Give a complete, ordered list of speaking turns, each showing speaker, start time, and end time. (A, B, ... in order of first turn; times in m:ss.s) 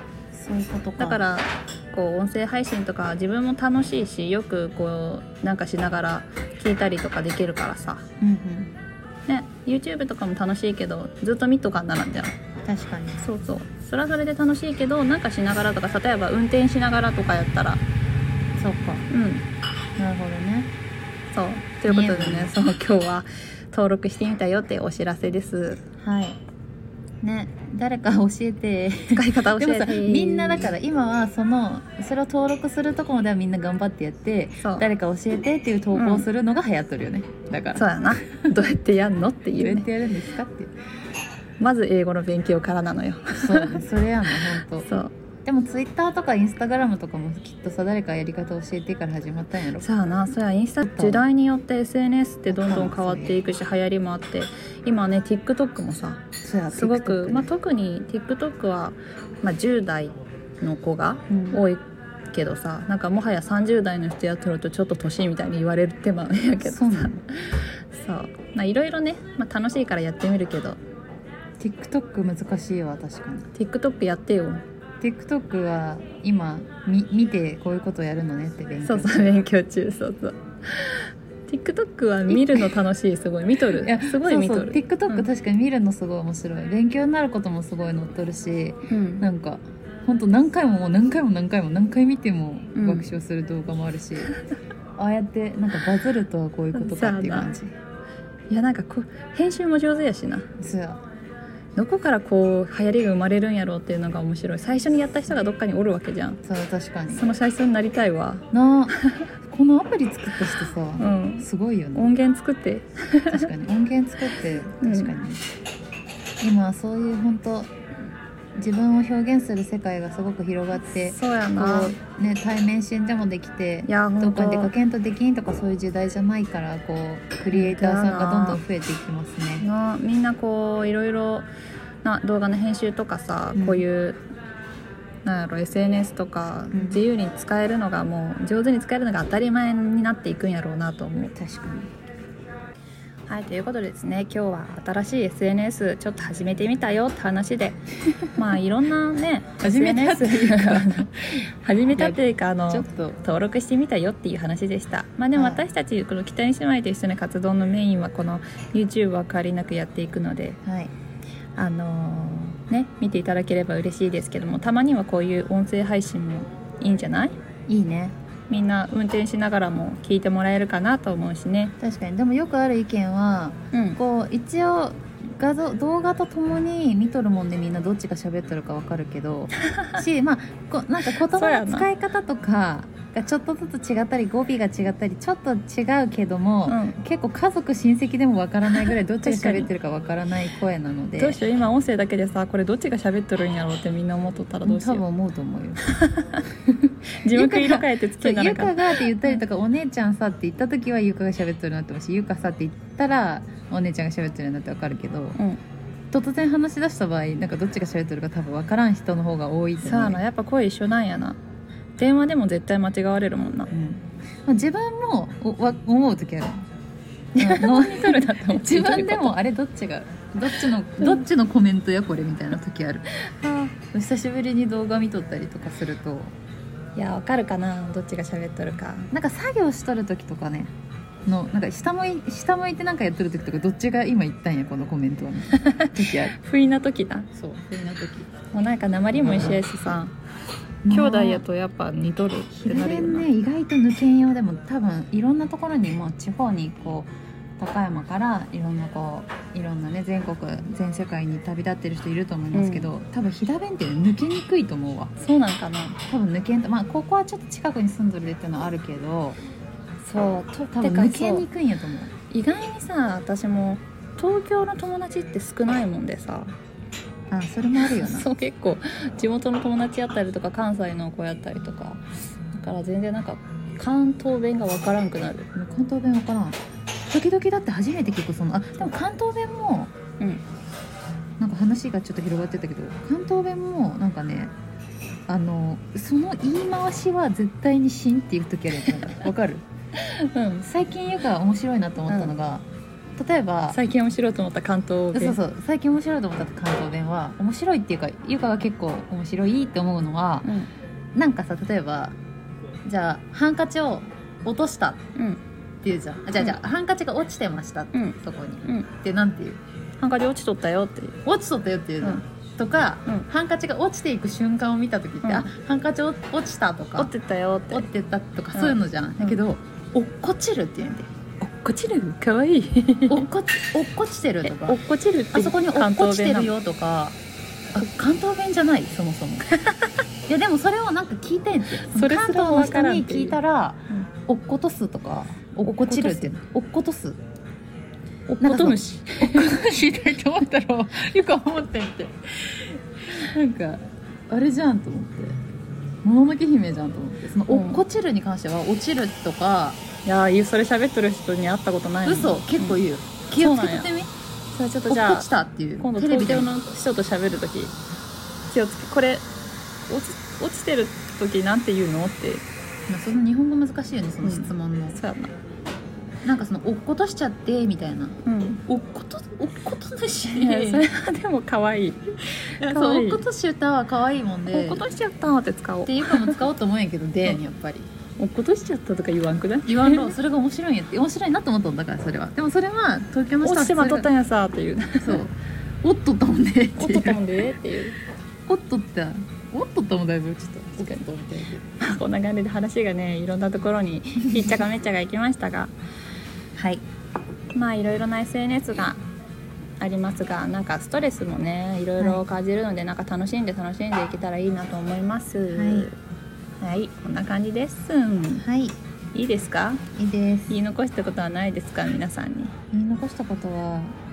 0:00.3-0:01.2 A
0:01.0-0:08.0 B
0:08.2-0:08.7 A
0:09.3-0:12.3 B
0:12.6-0:13.2 A
0:13.2-0:17.8 B
0:18.6-0:19.0 A
0:19.1-0:19.4 B
0:20.0-0:20.7 A
0:21.3-0:25.8 B
0:21.8-0:22.5 A
0:26.0-0:26.4 A
0:27.2-0:38.4 A
0:29.1-0:30.7 B
0:35.9-0:36.3 B
0:37.7-0:39.9 B
0:39.6-0:40.7 A
0:41.6-0:43.8 B
0:43.3-0:44.9 A
0:44.8-0:45.1 B
0:45.4-0:49.9 A
0:49.8-1:10.8 B
0:50.8-0:51.2 A
0:52.5-0:53.4 A
0:56.4-0:57.5 A
1:01.3-1:01.6 A
1:06.6-1:07.2 A
1:11.6-1:13.5 A
1:13.5-1:14.6 B
1:15.0-1:19.4 A
1:18.8-1:25.3 B
1:22.3-1:22.7 A
1:23.7-1:34.3 A
1:28.9-1:29.3 B
1:32.7-1:33.1 B
1:35.0-1:37.7 A
1:36.7-1:37.5 B
1:38.5-1:40.5 B
1:40.6-1:41.0 A
1:41.8-1:46.4 B
1:46.4-1:47.3 A
1:47.1-1:49.2 B
1:48.5-1:52.1 A
1:51.0-1:53.5 B
1:53.3-1:55.4 A
1:54.8-1:55.2 B
1:56.4-1:57.7 A
1:58.5-2:09.6 A
2:00.9-2:02.0 B
2:03.8-2:04.7 B
2:07.5-2:08.6 B
2:09.6-2:11.5 B
2:12.0-2:14.2 B
2:13.5-2:13.8 A
2:15.2-2:21.3 B
2:16.7-2:17.0 A
2:21.4-2:21.9 A
2:23.3-2:27.8 B
2:28.3-2:40.6 B
2:29.6-2:31.3 A
2:31.9-2:33.2 A
2:35.3-2:35.6 A
2:40.6-2:40.9 A
2:41.6-2:47.3 B
2:47.7-2:48.2 A
2:48.5-2:51.7 B
2:51.8-3:11.4 A
2:53.7-2:54.0 B
3:01.0-3:01.9 B
3:06.7-3:07.0 B
3:09.2-3:09.7 B
3:11.2-3:15.0 B
3:14.6-3:15.8 A
3:15.8-3:16.4 B
3:17.1-3:19.3 B
3:17.3-3:25.4 A
3:26.1-3:30.2 A
3:29.8-3:31.4 B
3:32.0-3:33.7 B
3:33.7-3:36.6 A
3:37.3-3:39.3 B
3:37.4-3:46.3 A
3:43.2-3:43.7 B
3:47.0-3:49.1 B
3:49.1-3:50.7 A
3:51.2-3:56.3 A
3:55.6-3:57.3 B
3:57.3-3:58.3 A
3:58.5-4:00.1 B
3:59.2-3:59.6 A
4:00.8-4:01.4 A
4:00.9-4:03.3 B
4:02.6-4:15.1 A
4:12.5-4:12.9 B
4:15.2-4:16.0 B
4:16.0-4:19.4 A
4:20.0-4:21.4 B
4:20.7-4:22.1 A
4:22.3-4:26.5 B
4:27.3-4:28.3 A
4:27.7-4:35.5 B
4:35.6-4:39.9 A
4:41.4-4:44.5 A
4:45.3-4:49.6 A
4:50.0-4:50.7 B
4:50.6-4:52.7 A
4:52.1-4:52.3 B
4:53.2-4:53.8 A
4:53.7-4:55.4 B
4:55.1-5:00.5 A
5:00.4-5:00.7 B
5:01.1-5:02.2 A
5:02.8-5:05.0 A
5:05.2-5:05.4 B
5:05.8-5:09.6 A
5:07.9-5:08.9 B
5:10.0-5:11.2 B
5:11.2-5:17.1 A
5:15.2-5:15.5 B
5:17.0-5:17.9 B
5:17.7-5:21.1 A
5:18.5-5:19.4 B
5:21.4-5:23.3 B
5:23.1-5:24.8 A
5:24.4-5:26.5 B
5:25.3-5:27.2 A
5:27.7-5:29.5 A
5:29.5-5:29.8 B
5:30.3-5:37.2 A
5:31.7-5:33.4 B
5:35.6-5:36.3 B
5:38.3-5:39.6 B
5:38.4-5:45.4 A
5:46.0-5:49.8 A
5:47.5-5:47.8 B
5:50.0-5:52.8 B
5:52.0-5:54.1 A
5:53.3-5:53.9 B
5:54.5-5:57.7 B
5:54.9-5:56.5 A
5:58.5-5:59.2 B
5:59.9-6:02.4 B
6:02.9-6:05.0 A
6:04.2-6:05.3 B
6:06.2-6:10.8 A
6:08.2-6:08.6 B
6:10.3-6:13.2 B
6:12.6-6:14.8 A
6:14.5-6:16.4 B
6:15.8-6:17.9 A
6:18.2-6:20.1 B
6:19.6-6:24.1 A
6:23.4-6:25.2 B
6:25.0-6:27.3 A
6:26.8-6:28.0 B
6:28.4-6:31.7 A
6:31.8-6:35.7 B
6:36.6-6:36.8 A
6:37.5-6:39.0 B
6:39.8-6:46.0 B
6:45.5-6:45.9 A
6:46.6-6:48.4 B
6:48.4-6:48.8 A
6:49.1-6:49.8 B
6:49.9-6:50.6 A
6:50.5-6:52.6 B
6:52.7-6:54.0 A